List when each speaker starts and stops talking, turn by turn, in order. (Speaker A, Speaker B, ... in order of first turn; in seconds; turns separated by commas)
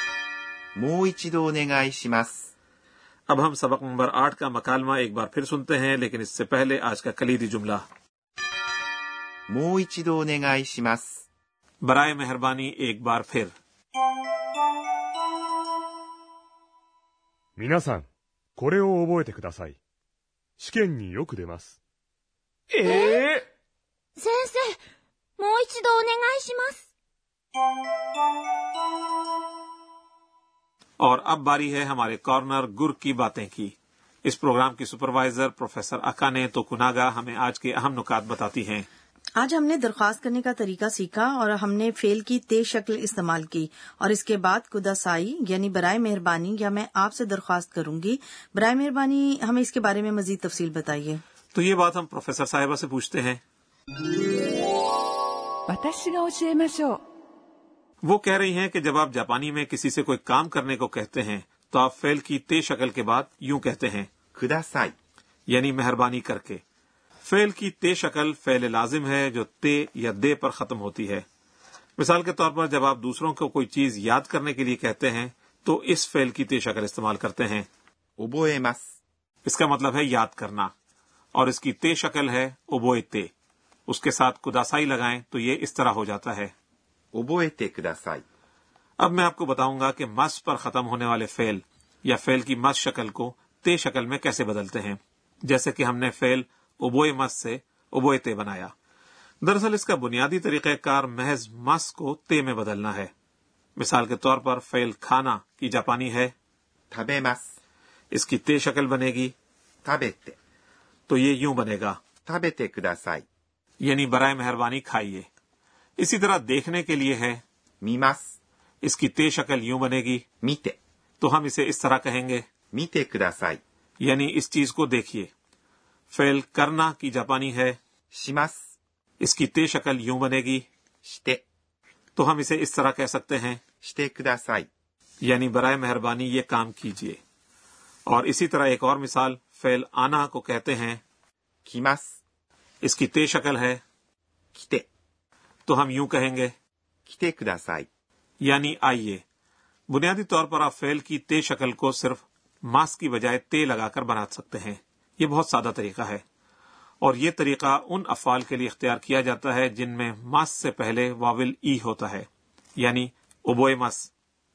Speaker A: 0.8-2.4, Speaker B: 3.3-7.8, Speaker A: 9.5-11.1, Speaker B: 11.8-13.5, Speaker C: 17.6-19.8, Speaker C: 20.6-21.8, Speaker D: 22.8-23.4, Speaker E: 22.8-23.4, Speaker E: 24.2-24.8, Speaker E: 25.4-26.8, Speaker B: 31.0-33.7, Speaker B: 34.2-38.9, Speaker F: 39.4-51.2, Speaker B: 51.5-53.4, Speaker D: 55.7-57.0, Speaker B: 58.0-64.1, Speaker A: 64.3-64.9, Speaker B: 65.5-66.6, Speaker B: 67.2-71.2, Speaker B: 72.0-77.7, Speaker A: 78.2-78.8, Speaker B: 79.5-80.7, Speaker B: 81.3-83.3, Speaker B: 83.9-86.5, Speaker A: 87.1-88.2, Speaker B: 89.0-98.7, Speaker B: 99.4-103.1, Speaker B: 103.8-106.3, Speaker A: 106.9-107.5, Speaker B: 108.1-109.3, Speaker A: 109.8-110.4, Speaker B: 111.1-112.0, Speaker A: 112.2-113.2, Speaker B: 113.8-115.3, Speaker B: 116.0-117.4, Speaker A: 117.8-118.3, Speaker B: 118.8-120.2, Speaker A: 120.4-120.8, Speaker B: 121.2-122.5, Speaker A: 122.7-123.6, Speaker B: 124.0-125.3, Speaker B: 126.1-127.8, Speaker A: 128.1-128.6, Speaker B: 129.2-130.7, Speaker A: 131.1-131.4, Speaker B: 132.2-133.6, Speaker A: 133.8-134.7, Speaker B: 135.2-137.2, Speaker B: 138.1-141.0, Speaker A: 141.7-142.1, Speaker B: 142.8-143.8, Speaker A: 144.5-144.8, Speaker B: 145.7-146.5, Speaker A: 147.1-147.9, Speaker B: 148.4-149.2, Speaker B: 149.9-156.2, Speaker B: 157.0-164.1